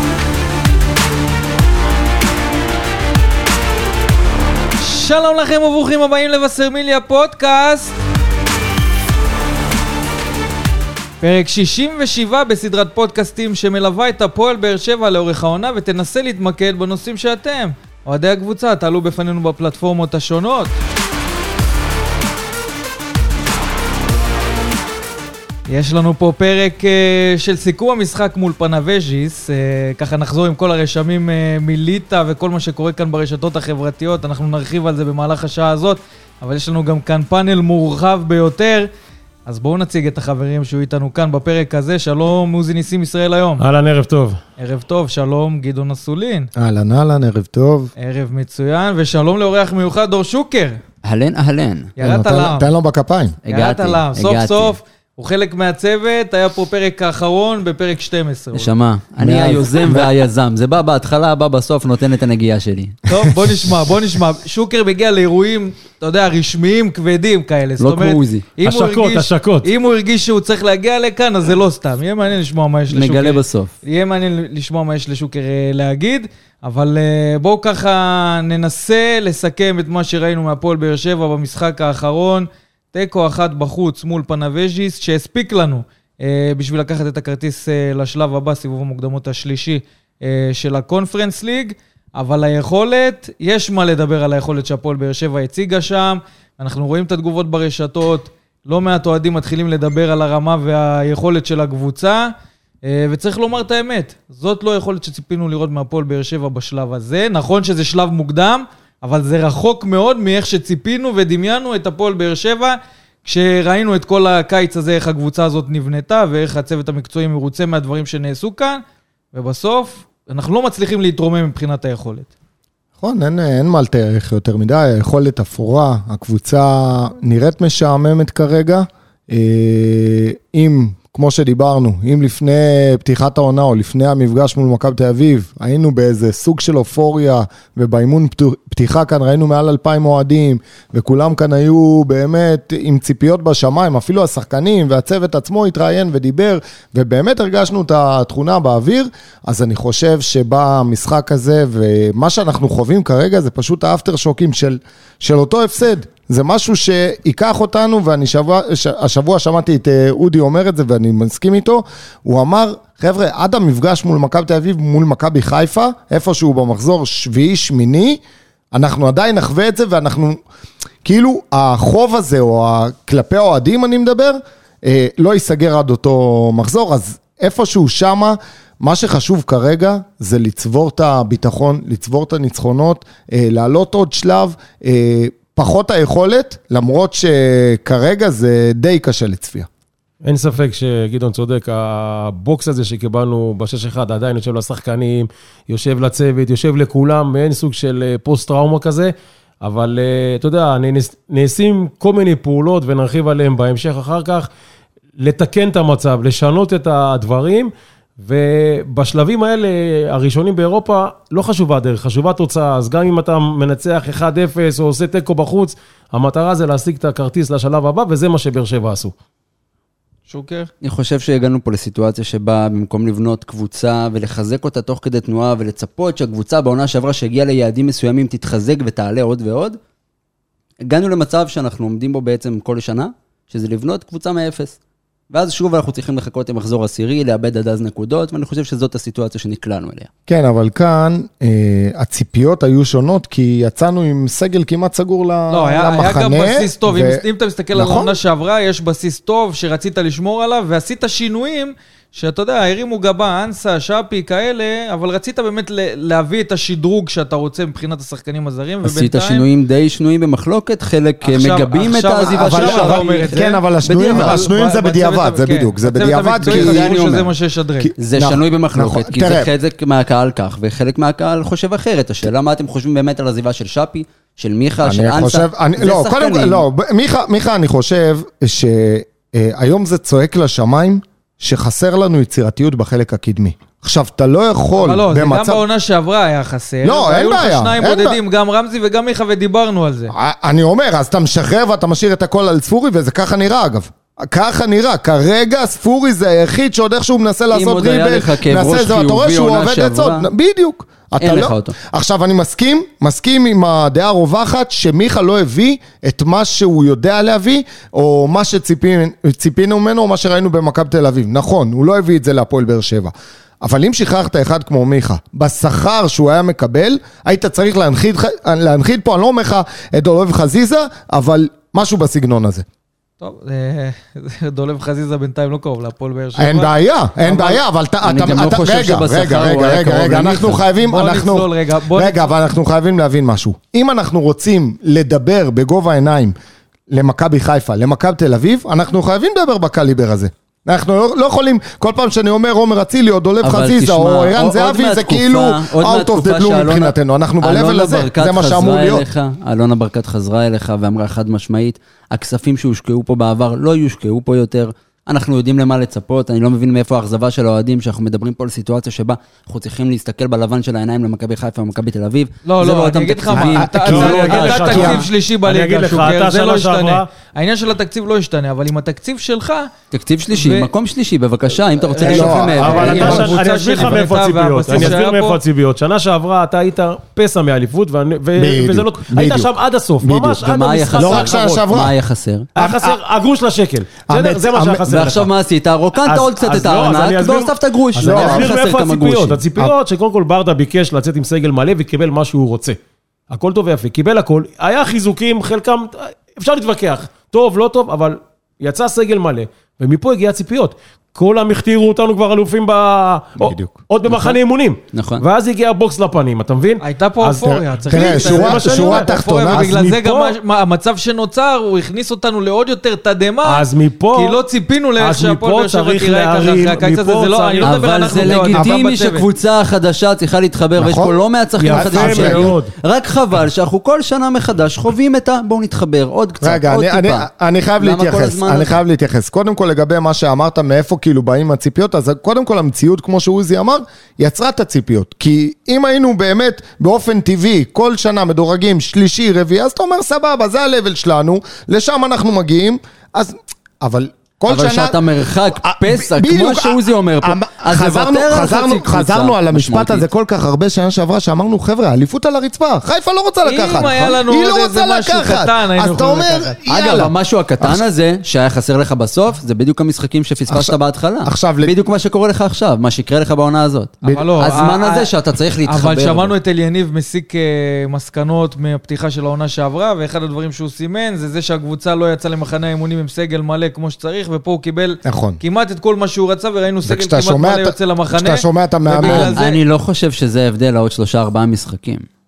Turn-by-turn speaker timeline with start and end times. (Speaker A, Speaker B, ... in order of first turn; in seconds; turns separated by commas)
Speaker A: 4.8-7.9, Speaker A: 11.2-20.8, Speaker A: 25.7-38.9, Speaker A: 39.5-43.6, Speaker B: 43.6-44.4, Speaker A: 44.6-46.5, Speaker C: 46.5-47.9, Speaker A: 48.0-50.8, Speaker D: 51.0-51.9, Speaker A: 52.0-52.7, Speaker C: 52.0-53.4, Speaker D: 53.5-54.7, Speaker A: 53.5-58.7, Speaker D: 58.5-63.0, Speaker C: 59.2-60.1, Speaker A: 63.1-102.3, Speaker D: 67.8-68.5, Speaker B: 68.6-69.7, Speaker D: 72.9-73.7, Speaker A: 102.8-122.3, Speaker C: 123.0-168.2, Speaker C: 168.7-170.4, Speaker C: 171.0-189.7, Speaker B: 190.2-204.5, Speaker B: 205.2-219.1, Speaker A: 220.3-220.7, Speaker D: 220.8-229.8, Speaker D: 230.8-234.8, Speaker D: 235.3-240.1, Speaker C: 240.3-247.2, Speaker A: 245.5-259.4, Speaker C: 247.7-248.2, Speaker D: 258.8-264.5, Speaker A: 261.2-267.9, Speaker C: 262.3-267.0, Speaker D: 266.4-267.3, Speaker C: 267.8-269.5, Speaker D: 268.0-276.6, Speaker C: 274.8-285.6, Speaker A: 284.8-290.1, Speaker C: 286.8-288.2, Speaker C: 290.1-322.6, Speaker D: 297.5-300.3, Speaker D: 301.2-301.8, Speaker A: 323.2-326.7, Speaker C: 326.4-336.3, Speaker A: 327.2-327.6, Speaker D: 328.0-330.6, Speaker A: 330.8-332.3, Speaker C: 336.9-349.0, Speaker D: 343.4-365.0, Speaker A: 362.4-369.7, Speaker C: 363.3-365.0, Speaker B: 363.9-367.1, Speaker D: 369.9-373.4, Speaker A: 370.3-370.7, Speaker A: 371.9-375.4, Speaker C: 372.0-373.4, Speaker B: 372.2-381.7, Speaker C: 378.3-380.4, Speaker D: 380.4-382.5, Speaker C: 380.9-381.9, Speaker C: 382.6-382.9, Speaker B: 382.6-385.3, Speaker C: 384.1-384.9, Speaker D: 384.9-389.4, Speaker B: 386.1-392.8, Speaker C: 388.0-388.5, Speaker B: 393.3-410.3, Speaker C: 403.4-403.8, Speaker D: 404.9-405.2, Speaker A: 406.8-419.2, Speaker C: 407.4-409.7, Speaker B: 413.4-414.4, Speaker B: 415.0-418.5, Speaker D: 417.6-427.3, Speaker C: 420.8-421.2, Speaker B: 421.6-422.7, Speaker C: 421.7-422.6, Speaker C: 426.4-445.0, Speaker D: 427.8-428.7, Speaker D: 444.5-450.0, Speaker C: 445.5-457.8, Speaker A: 453.4-456.6, Speaker D: 453.8-454.1, Speaker D: 456.7-466.3, Speaker C: 460.5-461.7, Speaker C: 464.0-464.3, Speaker A: 464.1-465.1, Speaker A: 465.6-479.6, Speaker C: 475.0-475.4, Speaker C: 476.9-479.4, Speaker D: 479.0-482.0